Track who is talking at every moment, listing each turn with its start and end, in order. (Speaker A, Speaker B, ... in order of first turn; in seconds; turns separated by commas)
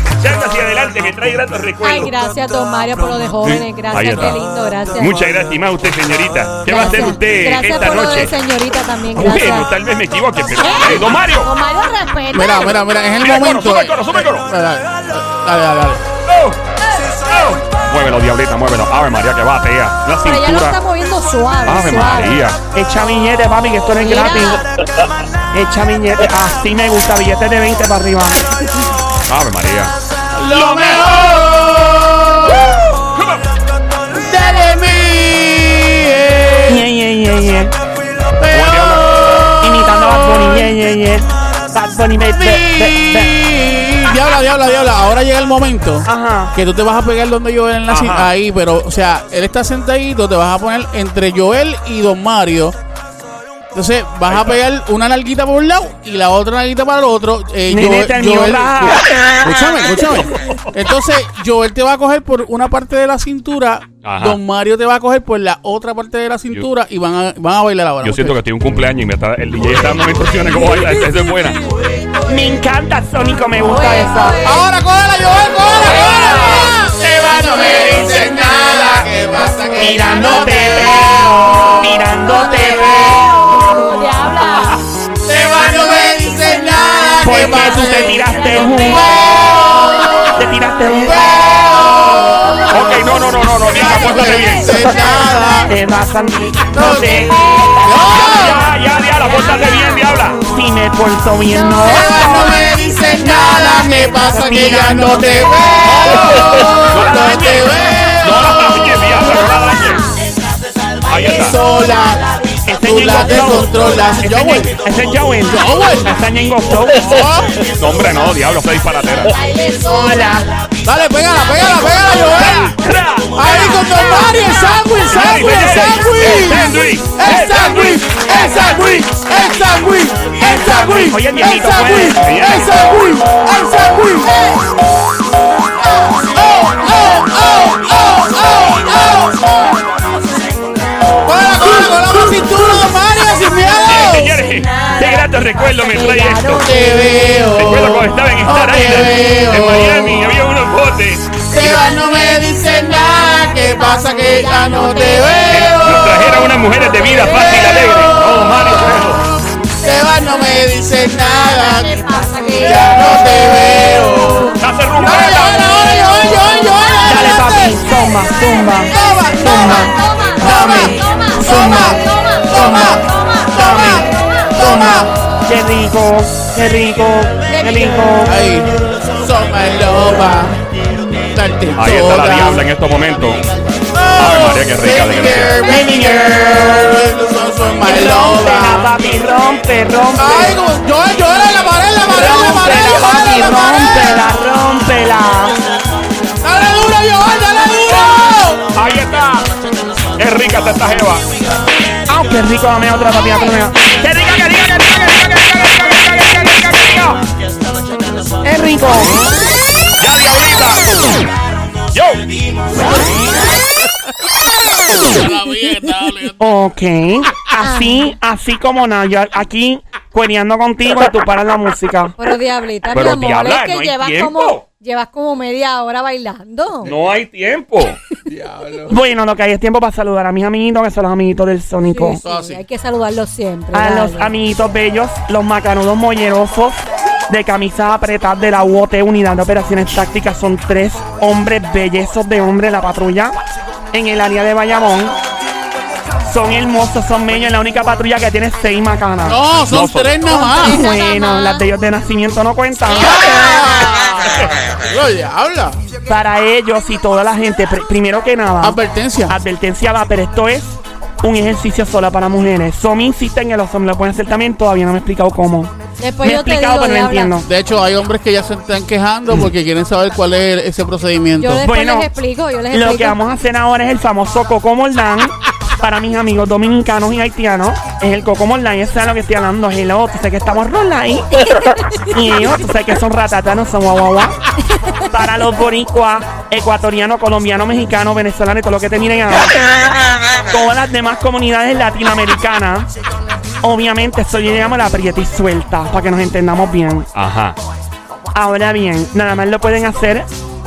Speaker A: 0.2-2.1, Speaker B: 1.8-5.2, Speaker A: 3.4-4.4, Speaker A: 5.0-8.3, Speaker B: 6.7-9.7, Speaker A: 9.2-11.5, Speaker B: 10.6-12.9, Speaker C: 12.3-16.1, Speaker A: 13.2-14.5, Speaker A: 16.3-16.6, Speaker B: 16.8-17.2, Speaker A: 17.2-20.8, Speaker B: 20.2-22.4, Speaker A: 21.6-22.6, Speaker D: 22.7-24.6, Speaker B: 24.0-24.6, Speaker D: 25.5-28.4, Speaker A: 29.3-29.9, Speaker C: 30.3-32.9, Speaker A: 30.5-31.5, Speaker A: 32.7-33.5, Speaker C: 34.1-36.9, Speaker D: 36.7-37.7, Speaker C: 38.4-40.7, Speaker A: 38.5-39.5, Speaker D: 39.6-43.4, Speaker C: 42.3-52.8, Speaker D: 46.1-46.5, Speaker A: 47.9-48.3, Speaker C: 53.7-68.4, Speaker A: 54.3-54.6, Speaker D: 57.7-59.0, Speaker A: 64.0-64.4, Speaker A: 68.0-71.6, Speaker B: 70.6-71.8, Speaker D: 72.3-74.4, Speaker B: 73.6-74.7, Speaker C: 74.4-83.9, Speaker A: 75.9-76.7, Speaker B: 75.9-76.7, Speaker D: 79.8-83.3, Speaker B: 82.3-84.8, Speaker C: 85.2-95.8, Speaker D: 87.2-89.1, Speaker B: 87.4-90.1, Speaker D: 90.3-91.3, Speaker B: 92.1-92.7, Speaker A: 92.7-94.8, Speaker B: 93.8-95.2, Speaker D: 95.7-97.4, Speaker C: 96.7-98.7, Speaker B: 97.3-98.5, Speaker A: 98.1-100.4, Speaker B: 99.2-100.1, Speaker D: 100.4-102.6, Speaker B: 101.5-103.6, Speaker C: 101.8-109.2, Speaker D: 103.4-105.5, Speaker A: 105.8-110.0, Speaker B: 107.8-108.1, Speaker B: 109.0-110.2, Speaker A: 111.1-111.6, Speaker C: 111.1-114.8, Speaker D: 112.7-117.1, Speaker C: 115.5-116.2, Speaker C: 117.0-117.7, Speaker A: 117.7-119.3, Speaker B: 119.3-120.5, Speaker D: 119.8-120.5, Speaker C: 120.8-122.8, Speaker B: 121.4-122.5, Speaker A: 122.3-123.3, Speaker D: 122.8-123.3, Speaker C: 123.3-134.9, Speaker B: 123.5-125.9, Speaker A: 125.1-128.3, Speaker D: 130.4-132.2, Speaker A: 132.2-132.8, Speaker C: 135.8-139.9, Speaker C: 141.2-144.4, Speaker A: 143.9-146.7, Speaker B: 144.4-147.5, Speaker C: 146.6-150.3, Speaker A: 147.6-151.8, Speaker C: 151.5-167.9, Speaker B: 153.1-155.8, Speaker A: 155.5-159.2, Speaker B: 161.0-174.6, Speaker A: 164.6-165.7, Speaker D: 167.0-172.0, Speaker C: 168.9-175.1, Speaker D: 172.5-173.0, Speaker D: 173.6-178.4, Speaker B: 177.4-178.2, Speaker C: 178.2-182.7, Speaker A: 181.8-183.5, Speaker C: 183.9-188.9, Speaker A: 184.2-185.6, Speaker D: 185.6-187.0, Speaker D: 187.8-190.6, Speaker C: 190.2-194.3, Speaker D: 192.0-195.6, Speaker C: 196.4-198.7, Speaker A: 198.7-199.5, Speaker A: 200.1-201.3, Speaker D: 202.1-207.2, Speaker D: 208.4-209.2, Speaker A: 210.0-211.2, Speaker A: 211.9-212.3, Speaker C: 214.8-216.6, Speaker B: 214.9-215.2, Speaker D: 216.4-222.2, Speaker B: 217.6-218.2, Speaker B: 222.2-226.9, Speaker A: 222.9-224.6, Speaker A: 226.8-228.0, Speaker C: 228.3-229.0, Speaker D: 228.9-232.2, Speaker B: 231.9-234.3, Speaker C: 232.2-232.6, Speaker D: 233.7-243.3, Speaker D: 243.9-245.2, Speaker D: 246.3-249.4, Speaker C: 249.2-250.9, Speaker A: 249.7-250.2, Speaker B: 250.3-251.7, Speaker D: 250.4-253.2, Speaker C: 252.9-255.8, Speaker A: 254.3-254.6, Speaker D: 256.1-267.5, Speaker C: 258.6-259.4, Speaker B: 266.0-267.4, Speaker C: 267.4-271.7, Speaker B: 271.4-273.2, Speaker D: 271.6-272.1, Speaker D: 272.7-284.4, Speaker B: 281.6-282.1, Speaker B: 284.7-285.1, Speaker D: 285.1-289.5, Speaker D: 290.5-292.9, Speaker D: 293.6-297.1, Speaker A: 297.1-297.6, Speaker D: 298.3-300.3